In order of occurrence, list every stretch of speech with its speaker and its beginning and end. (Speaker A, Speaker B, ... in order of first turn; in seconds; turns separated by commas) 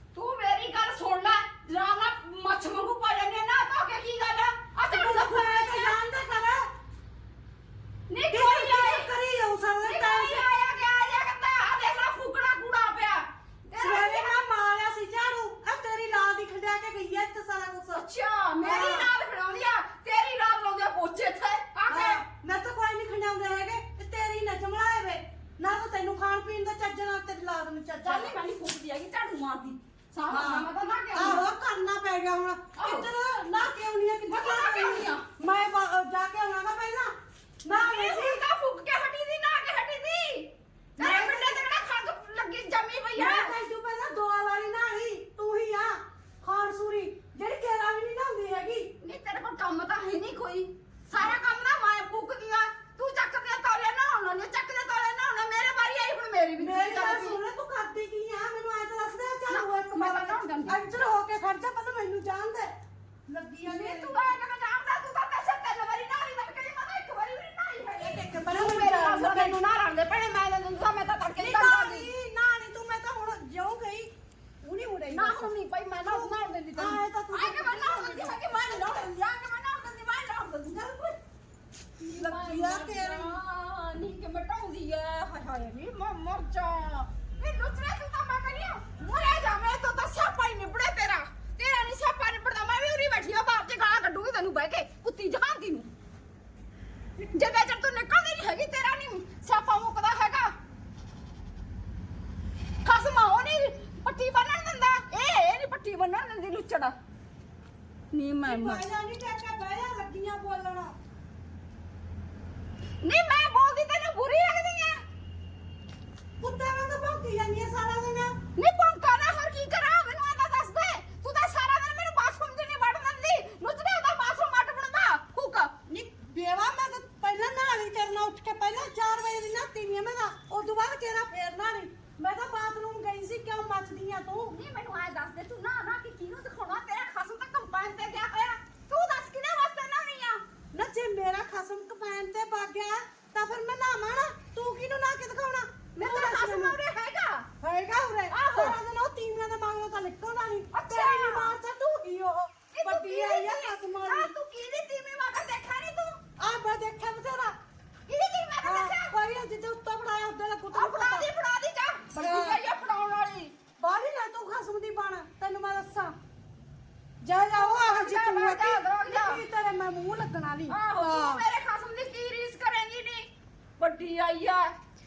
Speaker A: 0.1-6.0, Speaker B: 4.9-6.7, Speaker A: 8.1-9.1, Speaker B: 8.3-10.5, Speaker A: 9.8-14.4, Speaker B: 13.8-18.1, Speaker A: 17.9-22.2, Speaker B: 18.6-19.1, Speaker B: 21.9-28.4, Speaker A: 28.0-31.4, Speaker B: 30.3-37.1, Speaker A: 32.8-33.1, Speaker A: 34.3-35.2, Speaker A: 37.6-43.5, Speaker B: 37.7-38.4, Speaker B: 41.0-41.7, Speaker B: 43.1-48.9, Speaker A: 49.0-57.4, Speaker B: 51.1-51.4, Speaker B: 56.6-62.7, Speaker A: 59.5-60.8, Speaker B: 63.3-64.3, Speaker A: 63.7-72.1, Speaker B: 68.0-69.7, Speaker B: 71.4-74.1, Speaker B: 74.6-75.5, Speaker A: 75.1-81.2, Speaker B: 76.0-79.1, Speaker A: 82.0-95.9, Speaker B: 82.2-83.4, Speaker A: 97.2-100.5, Speaker A: 102.8-106.9, Speaker A: 108.1-108.9, Speaker B: 108.4-110.9, Speaker A: 113.0-115.0, Speaker B: 116.4-118.4, Speaker A: 118.6-125.7, Speaker B: 125.9-134.5, Speaker A: 134.5-140.4, Speaker B: 140.7-146.8, Speaker A: 146.0-147.5, Speaker B: 147.6-154.3, Speaker A: 148.3-148.8, Speaker A: 150.7-151.6, Speaker A: 152.7-156.2, Speaker B: 156.4-157.6, Speaker A: 158.1-159.1, Speaker B: 158.6-161.3, Speaker A: 160.7-163.5, Speaker B: 162.2-162.6, Speaker B: 163.8-166.2, Speaker B: 167.2-171.5, Speaker A: 167.5-169.4, Speaker A: 170.7-174.8